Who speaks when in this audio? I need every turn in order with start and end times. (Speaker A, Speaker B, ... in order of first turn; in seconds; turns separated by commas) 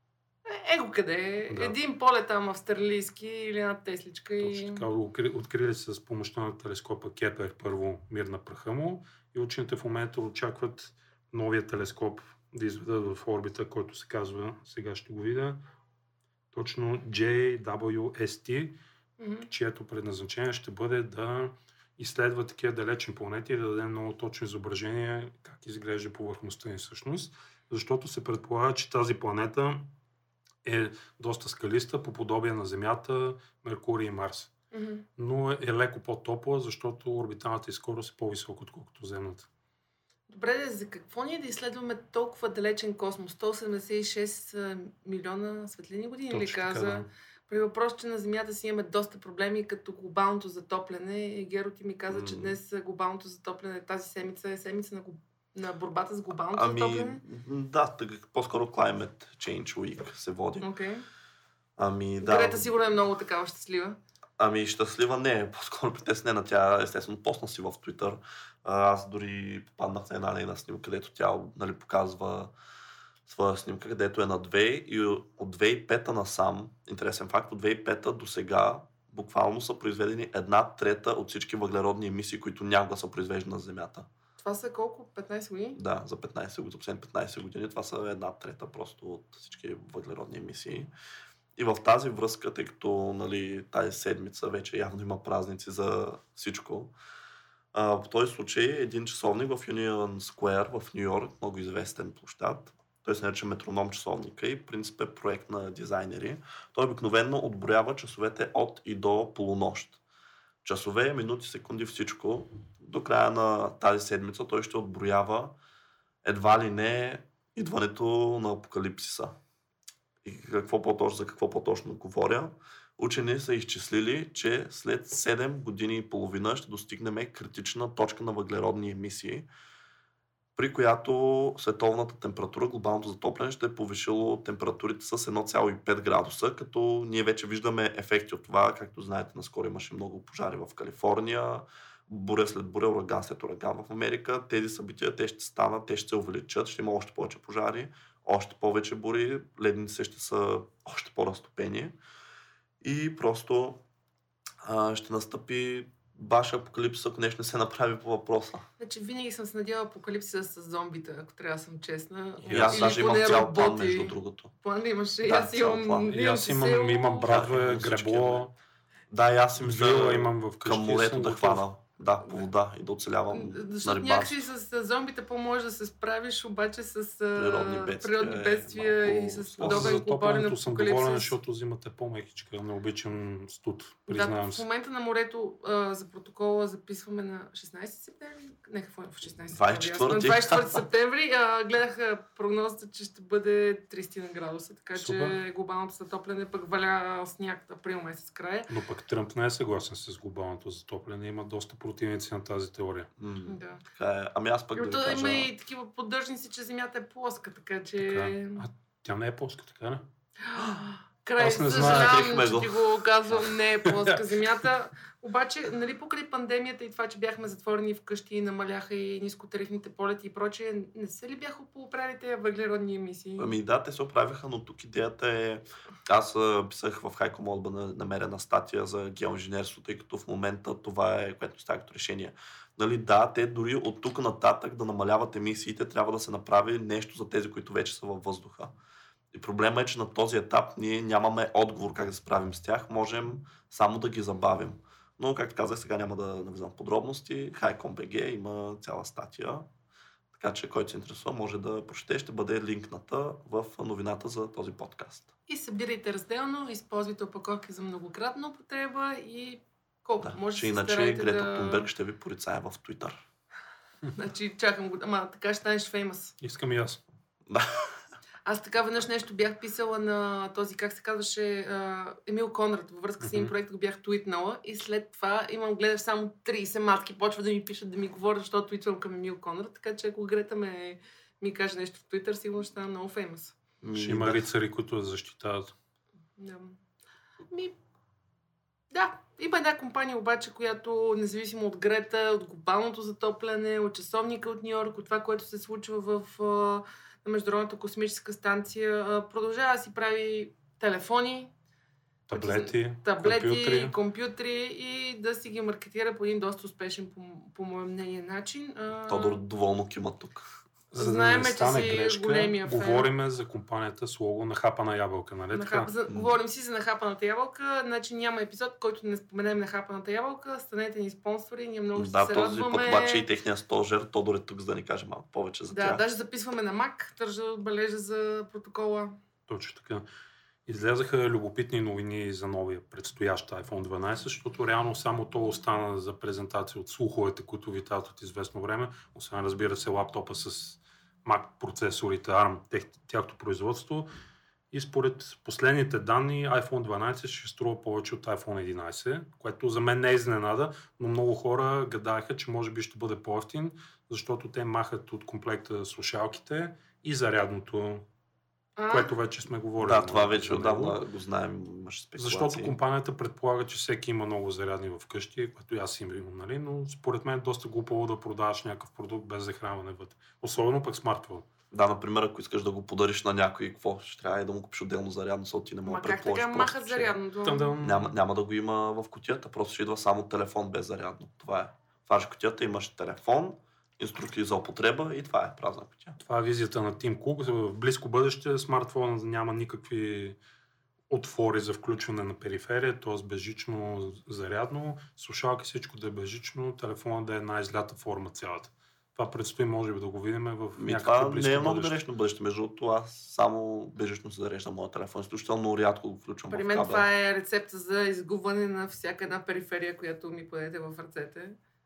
Speaker A: 0.5-4.8, Speaker B: 1.5-1.8, Speaker B: 4.4-15.6, Speaker B: 16.5-18.8, Speaker A: 19.2-19.5, Speaker B: 19.5-29.9, Speaker B: 30.6-34.5, Speaker A: 34.7-35.0, Speaker B: 35.2-39.5, Speaker A: 40.3-57.2, Speaker B: 46.3-47.1, Speaker C: 52.1-52.5, Speaker C: 56.5-60.7, Speaker A: 60.6-61.0, Speaker C: 61.8-62.7, Speaker A: 62.2-64.0, Speaker C: 64.4-72.5, Speaker C: 73.2-84.1, Speaker A: 84.4-85.8, Speaker C: 85.7-90.9, Speaker C: 91.5-96.9, Speaker C: 97.7-110.0, Speaker C: 110.6-115.5, Speaker C: 116.2-119.3, Speaker C: 120.2-129.5, Speaker C: 130.6-151.9, Speaker C: 152.8-153.8, Speaker C: 154.6-158.7, Speaker A: 158.8-167.3, Speaker B: 162.4-163.4, Speaker C: 162.5-164.5, Speaker C: 165.2-166.1, Speaker B: 166.1-168.5, Speaker C: 167.2-168.5, Speaker C: 169.1-174.4, Speaker B: 169.6-171.6, Speaker A: 173.3-181.3, Speaker C: 177.3-180.0, Speaker B: 179.6-184.6, Speaker A: 184.1-198.7, Speaker C: 189.5-190.8, Speaker B: 194.9-195.4, Speaker B: 198.7-203.1, Speaker C: 203.2-205.5, Speaker A: 203.4-203.8, Speaker A: 204.7-208.6, Speaker B: 208.0-210.0, Speaker A: 210.4-223.5, Speaker B: 211.4-212.4, Speaker C: 211.7-212.8, Speaker B: 213.8-214.4, Speaker C: 223.4-238.7, Speaker C: 239.3-249.7, Speaker C: 250.3-255.3, Speaker A: 255.5-261.9, Speaker C: 260.2-263.2, Speaker A: 264.1-266.3, Speaker B: 266.4-267.0, Speaker C: 267.5-267.9, Speaker A: 268.4-283.6, Speaker B: 273.2-273.5, Speaker C: 283.8-284.4, Speaker B: 283.9-285.7, Speaker A: 286.4-286.8, Speaker A: 287.5-287.8, Speaker A: 288.9-301.5, Speaker B: 302.3-303.9, Speaker A: 302.3-309.4, Speaker C: 309.1-310.5, Speaker B: 310.9-315.9, Speaker A: 311.0-313.1, Speaker A: 315.5-323.2, Speaker C: 316.1-316.3, Speaker C: 321.9-326.1, Speaker A: 325.7-329.2, Speaker B: 329.5-330.0, Speaker B: 330.6-344.1, Speaker B: 344.7-358.0, Speaker A: 358.8-359.1, Speaker B: 358.9-361.0, Speaker C: 359.8-362.7, Speaker B: 362.2-371.4, Speaker C: 371.7-377.1, Speaker A: 375.8-377.7, Speaker B: 377.4-378.1, Speaker C: 377.8-386.1, Speaker B: 386.2-390.4, Speaker B: 391.1-402.0, Speaker C: 400.8-407.1, Speaker A: 406.5-411.6